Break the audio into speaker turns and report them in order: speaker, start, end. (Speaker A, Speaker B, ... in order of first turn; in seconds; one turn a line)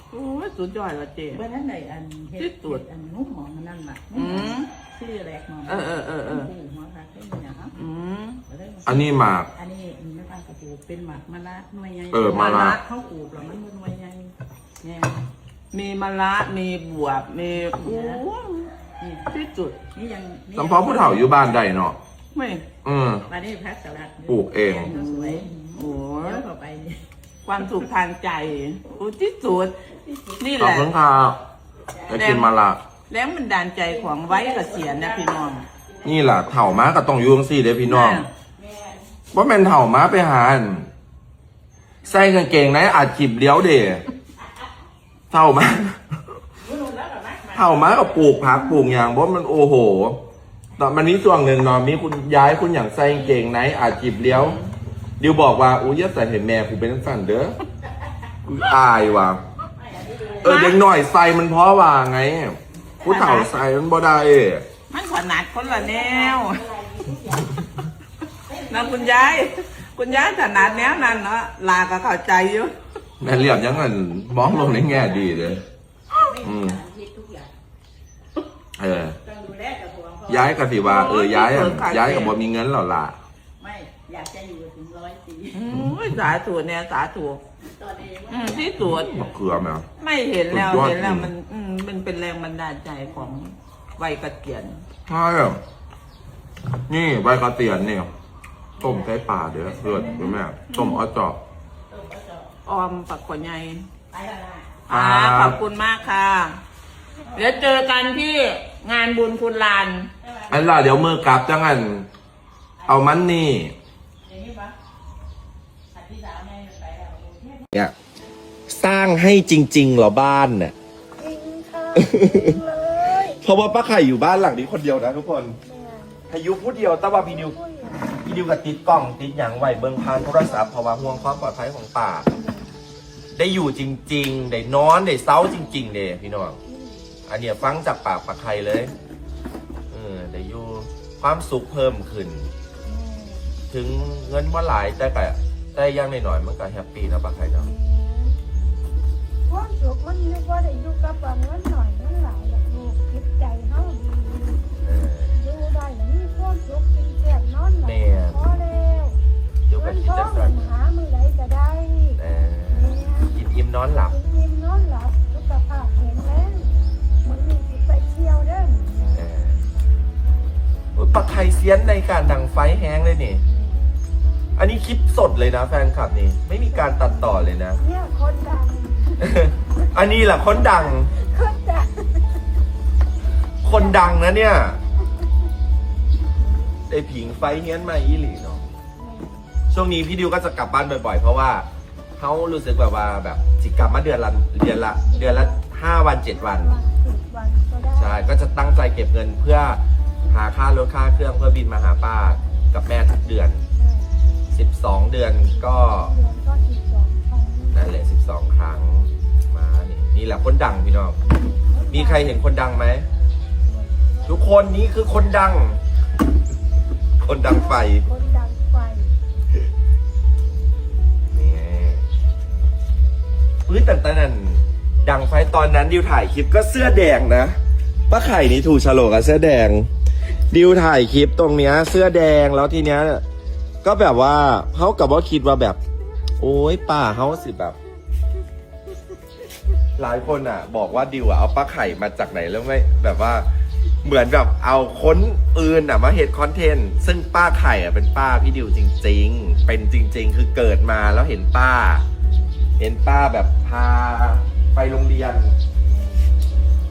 Speaker A: 0.1-1.4
Speaker B: 1.3-7.8
Speaker A: 2.4-2.8
Speaker A: 4.1-4.7
Speaker A: 5.7-6.5
Speaker A: 7.7-8.4
Speaker B: 8.5-15.2
Speaker C: 8.8-9.5
Speaker C: 12.1-12.8
Speaker A: 12.3-12.8
Speaker A: 15.7-18.7
Speaker B: 17.6-18.2
Speaker B: 19.0-19.3
Speaker A: 19.3-19.8
Speaker B: 19.9-21.6
Speaker C: 20.5-22.0
Speaker A: 22.3-22.6
Speaker C: 22.8-23.2
Speaker B: 23.2-27.0
Speaker C: 24.3-24.9
Speaker A: 24.9-26.4
Speaker A: 27.4-29.8
Speaker B: 30.0-30.4
Speaker A: 30.4-30.9
Speaker C: 30.6-31.4
Speaker B: 31.9-32.4
Speaker C: 32.1-32.8
Speaker A: 32.1-32.5
Speaker A: 33.1-35.6
Speaker B: 33.9-36.8
Speaker C: 36.0-38.3
Speaker A: 37.8-38.3
Speaker B: 38.5-39.1
Speaker C: 39.3-40.9
Speaker C: 42.0-44.0
Speaker C: 45.3-46.1
Speaker B: 46.6-48.8
Speaker C: 47.5-50.2
Speaker C: 50.8-54.6
Speaker A: 54.3-54.6
Speaker C: 55.2-57.5
Speaker C: 58.5-59.4
Speaker B: 59.8-60.7
Speaker C: 60.4-64.7
Speaker A: 60.4-60.8
Speaker A: 63.0-63.5
Speaker A: 64.9-66.6
Speaker B: 65.6-67.6
Speaker B: 68.5-69.5
Speaker A: 68.7-72.7
Speaker B: 70.0-71.3
Speaker C: 73.2-75.6
Speaker B: 73.3-75.6
Speaker B: 76.2-77.5
Speaker C: 76.4-76.8
Speaker C: 78.8-79.2
Speaker B: 79.2-81.0
Speaker C: 80.3-83.2
Speaker A: 80.8-82.4
Speaker B: 83.6-85.7
Speaker A: 85.5-87.4
Speaker B: 87.6-89.3
Speaker A: 88.3-89.2
Speaker C: 88.8-89.8
Speaker A: 90.0-94.8
Speaker C: 90.5-91.3
Speaker C: 95.1-95.6
Speaker C: 96.9-98.1
Speaker B: 98.8-100.4
Speaker C: 98.8-101.4
Speaker A: 100.0-101.0
Speaker B: 101.9-102.5
Speaker A: 102.6-103.9
Speaker B: 104.1-104.8
Speaker A: 104.9-106.6
Speaker C: 104.9-105.6
Speaker B: 107.2-107.8
Speaker A: 107.3-110.1
Speaker B: 110.2-111.2
Speaker C: 110.5-112.1
Speaker B: 112.8-113.4
Speaker C: 112.8-113.7
Speaker B: 114.2-114.7
Speaker B: 115.9-117.7
Speaker C: 118.7-120.7
Speaker D: 121.2-123.4
Speaker C: 122.0-122.4
Speaker C: 123.3-125.6
Speaker D: 125.5-126.3
Speaker C: 126.3-127.6
Speaker D: 127.0-128.2
Speaker C: 128.2-132.3
Speaker D: 129.6-131.5
Speaker D: 132.3-132.8
Speaker C: 133.3-136.6
Speaker D: 135.5-135.9
Speaker D: 136.6-137.1
Speaker C: 137.3-138.9
Speaker C: 139.9-142.5
Speaker D: 142.8-143.5
Speaker C: 143.7-147.7
Speaker D: 147.6-148.4
Speaker C: 148.4-148.8
Speaker D: 149.5-159.2
Speaker C: 154.8-155.4
Speaker C: 157.8-158.4
Speaker C: 159.7-160.6
Speaker D: 159.8-163.4
Speaker C: 162.2-164.1
Speaker D: 164.0-166.7
Speaker D: 167.2-169.2
Speaker C: 169.1-169.7
Speaker C: 170.9-173.4
Speaker D: 173.5-173.8
Speaker C: 174.6-177.8
Speaker D: 176.7-182.4
Speaker C: 179.3-181.1
Speaker C: 183.6-184.8
Speaker D: 183.6-184.4
Speaker C: 186.9-188.6
Speaker D: 188.9-189.5
Speaker C: 189.7-191.7
Speaker C: 192.2-196.8
Speaker D: 195.1-195.6
Speaker D: 196.3-198.4
Speaker C: 197.9-203.6
Speaker D: 203.8-204.1
Speaker C: 204.5-206.1
Speaker D: 205.5-207.9
Speaker C: 207.7-211.2
Speaker D: 211.2-212.4
Speaker C: 211.9-213.1
Speaker D: 213.6-214.7
Speaker C: 214.2-215.8
Speaker C: 217.2-218.1
Speaker D: 217.4-219.2
Speaker C: 221.3-222.0
Speaker C: 223.7-227.6
Speaker C: 228.1-229.9
Speaker C: 230.5-233.2
Speaker C: 233.8-235.8
Speaker C: 236.4-237.8
Speaker C: 240.0-243.5
Speaker C: 244.0-252.1
Speaker D: 252.2-252.5
Speaker C: 252.8-255.6
Speaker D: 255.8-256.5